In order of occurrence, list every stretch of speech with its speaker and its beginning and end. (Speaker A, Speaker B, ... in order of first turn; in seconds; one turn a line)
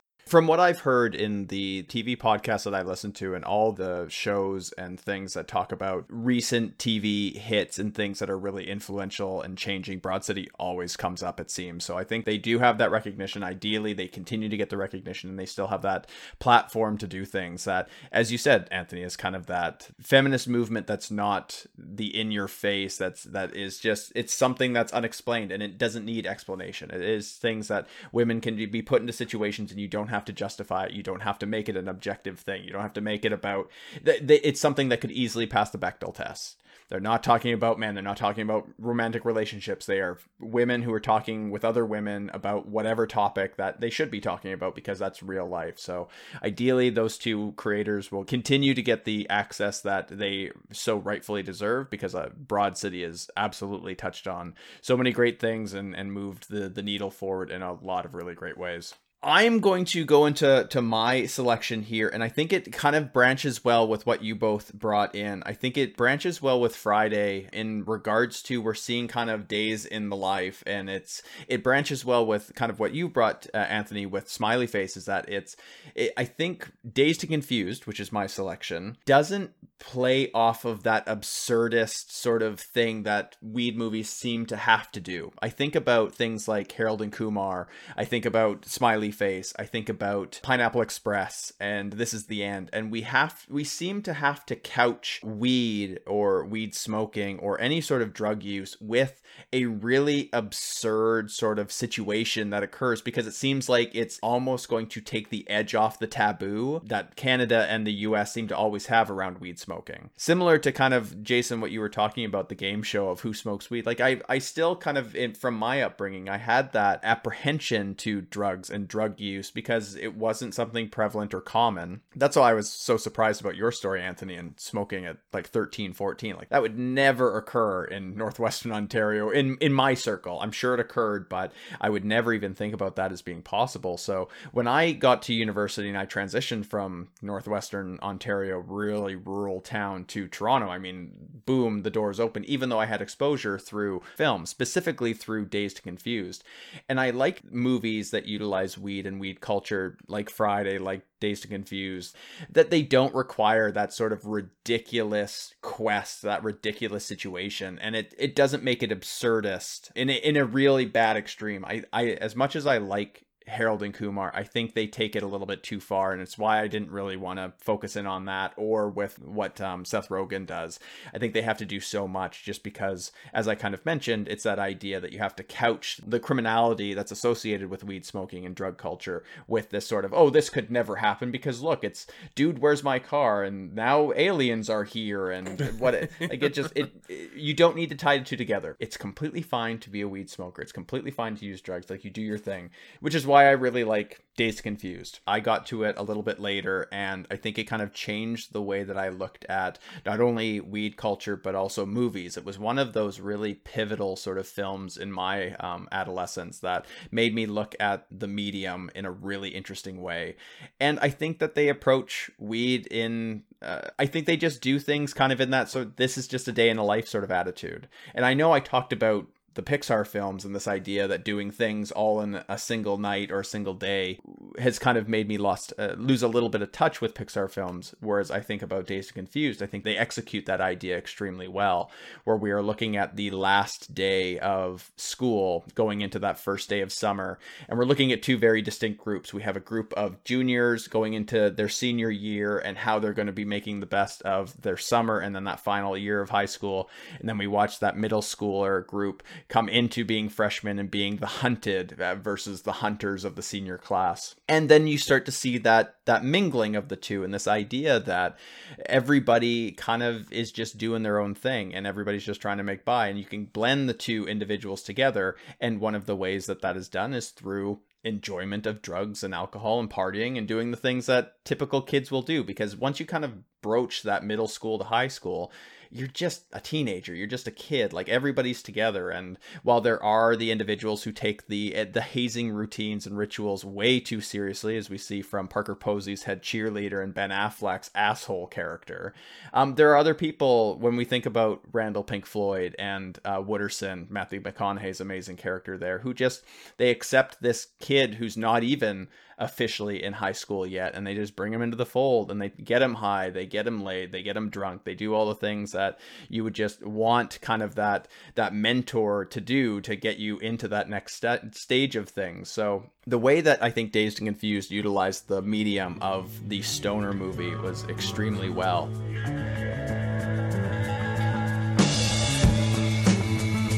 Speaker A: 0.3-318.9